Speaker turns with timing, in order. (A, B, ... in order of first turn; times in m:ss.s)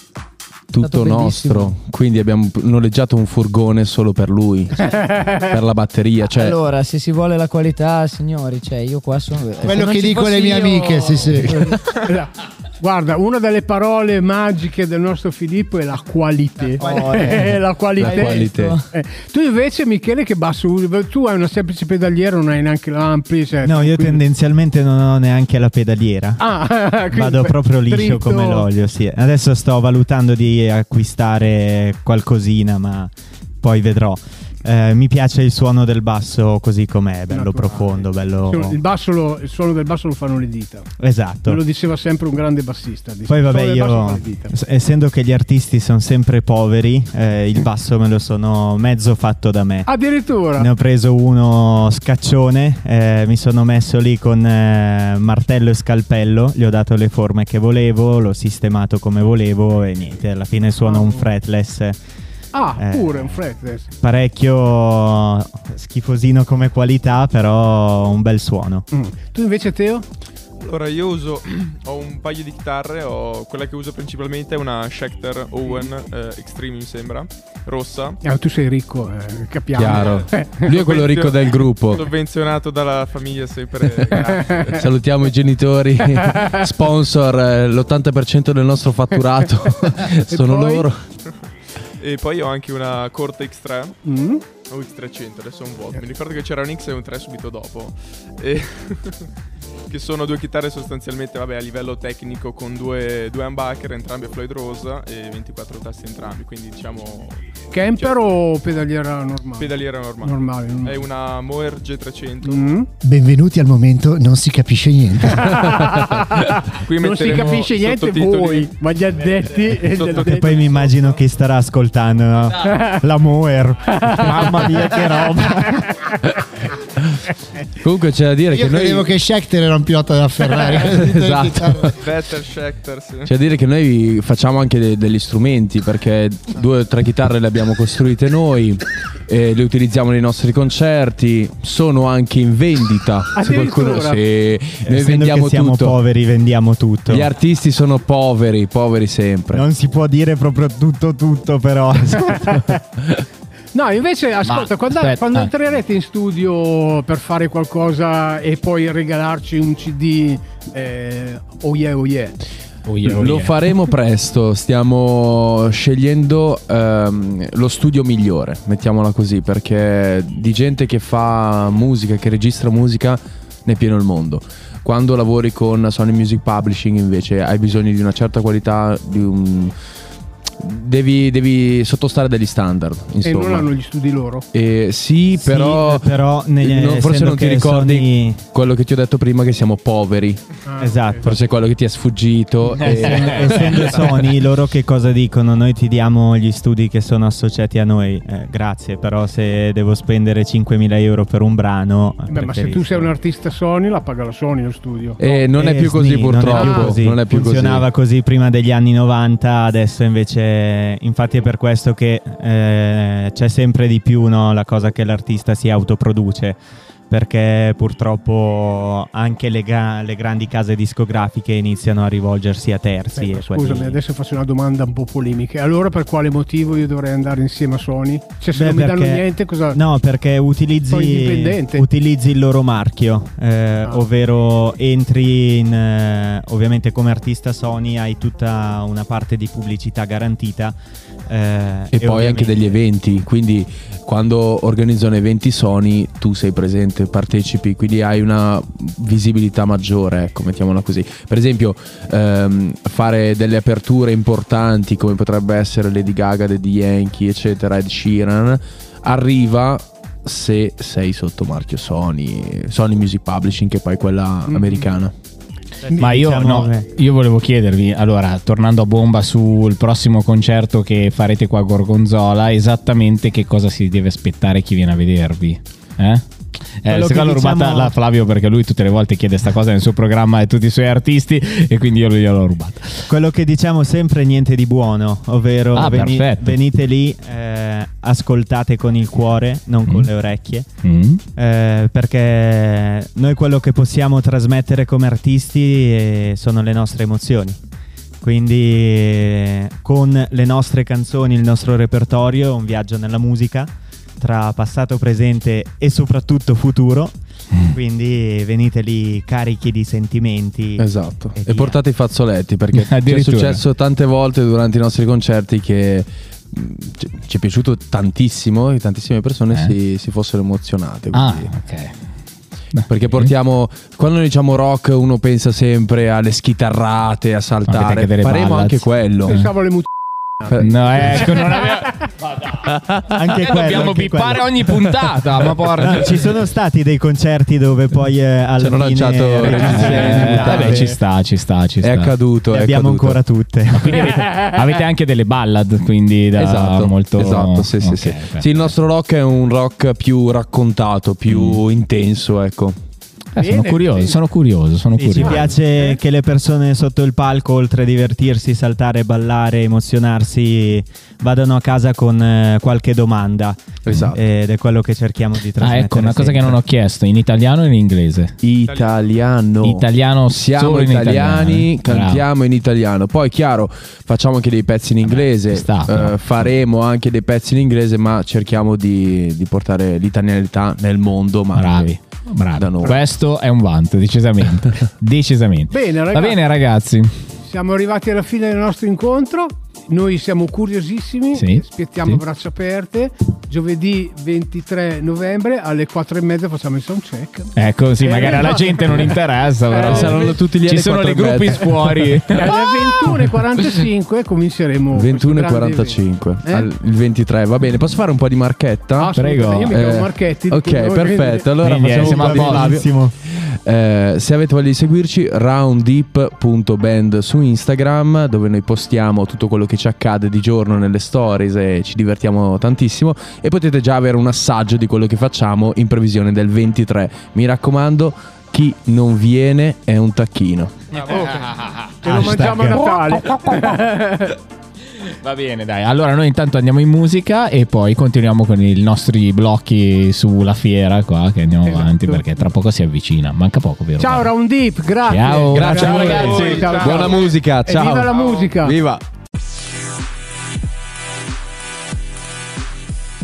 0:00.7-0:06.6 A
0:00.8-0:01.8 B
0:04.8-0:05.6 C
0:06.2-0:11.8 B
0:09.6-0:11.7 D
0:12.0-0:24.2 C
0:16.8-0:18.9 B
0:16.9-0:17.4 D
0:18.0-0:18.8 A
0:23.6-0:26.4 E
0:26.4-0:28.7 C
0:27.1-0:38.8 E
0:37.3-0:40.9 C
0:41.0-0:41.6 E
0:41.4-0:44.6 C
0:43.3-0:49.9 E
0:49.9-0:50.7 C
0:50.6-1:02.0 E
1:00.8-1:01.3 C
1:02.5-1:03.9 C
1:02.8-1:03.4 E
1:04.0-1:08.9 E
1:08.9-1:10.1 C
1:10.6-1:18.2 F
1:18.2-1:20.7 C
1:19.8-1:22.1 A
1:20.7-1:24.8 F
1:24.7-1:30.9 A
1:30.3-1:30.9 C
1:32.0-1:34.0 F
1:34.0-1:34.4 C
1:34.6-1:39.3 F
1:39.9-1:48.3 F
1:47.7-1:51.0 C
1:49.6-1:52.8 F
1:52.4-1:52.9 C
1:53.0-1:55.8 D
1:55.4-2:00.6 C
1:56.8-1:58.7 F
1:59.7-2:01.2 F
2:00.2-2:05.9 E
2:03.9-2:04.7 C
2:07.8-2:09.1 A
2:08.5-2:12.0 D
2:10.7-2:12.0 A
2:12.0-2:13.3 F
2:13.3-2:26.0 A
2:23.4-2:24.2 C
2:24.8-2:27.3 E
2:27.1-2:29.6 A
2:29.5-2:32.8 E
2:33.7-2:42.4 C
2:34.4-2:35.5 G
2:42.9-2:43.8 G
2:43.0-2:59.7 A
3:00.6-3:03.7 A
3:03.2-3:04.5 C
3:04.5-3:06.1 A
3:05.4-3:08.4 E
3:06.6-3:10.4 A
3:10.7-3:11.4 C
3:10.8-3:11.4 E
3:11.2-3:14.0 A
3:12.8-3:23.1 E
3:12.8-3:14.1 G
3:22.3-3:25.2 C
3:25.2-3:27.8 A
3:25.4-3:44.0 E
3:26.5-3:27.0 C
3:43.2-3:49.8 C
3:48.5-4:00.8 E
3:50.9-3:51.9 C
4:01.3-4:02.7 E
4:01.9-4:25.1 A
4:24.5-4:24.9 C
4:25.8-4:26.9 E
4:26.0-4:36.2 G
4:36.8-4:43.0 G
4:36.9-4:37.9 E
4:43.1-4:50.7 E
4:45.8-4:46.6 G
4:50.8-4:51.2 G
4:51.4-4:57.6 E
4:58.2-5:07.1 E
5:07.7-5:11.8 E
5:10.8-5:21.5 A
5:12.8-5:13.6 G
5:21.1-5:22.0 G
5:22.7-5:23.3 G
5:22.9-5:29.4 A
5:27.7-5:29.5 G
5:29.3-5:29.9 C
5:30.4-5:30.7 C
5:30.4-5:31.4 A
5:30.6-5:36.3 G
5:31.2-5:31.7 C
5:33.0-5:34.9 E
5:35.8-5:41.0 E
5:38.6-5:41.0 A
5:39.5-5:42.2 G
5:41.8-5:43.2 A
5:42.5-5:44.1 E
5:43.7-5:48.7 G
5:46.4-5:52.8 A
5:51.3-5:51.6 G
5:53.4-5:55.5 G
5:53.4-5:54.2 C
5:55.0-6:06.6 E
5:55.2-5:56.0 C
6:03.8-6:04.2 A
6:05.6-6:08.3 G
6:08.4-6:22.0 A
6:08.6-6:09.2 F
6:09.6-6:12.2 G
6:15.0-6:16.5 G
6:21.6-6:27.1 G
6:22.5-6:23.1 A
6:25.7-6:26.4 C
6:27.4-6:40.4 C
6:31.3-6:32.2 G
6:37.6-6:43.7 G
6:39.8-6:42.2 A
6:42.3-6:46.7 C
6:44.9-6:49.1 A
6:49.0-6:51.5 C
6:49.2-6:49.8 G
6:49.7-7:10.9 A
6:51.6-6:52.8 G
6:51.7-6:53.2 E
7:11.0-7:11.5 C
7:11.1-7:12.0 G
7:12.0-7:12.9 E
7:12.0-7:14.4 C
7:15.0-7:24.3 G
7:21.6-7:22.3 C
7:24.0-7:28.8 C
7:25.1-7:27.2 G
7:25.5-7:29.0 A
7:26.2-7:26.5 E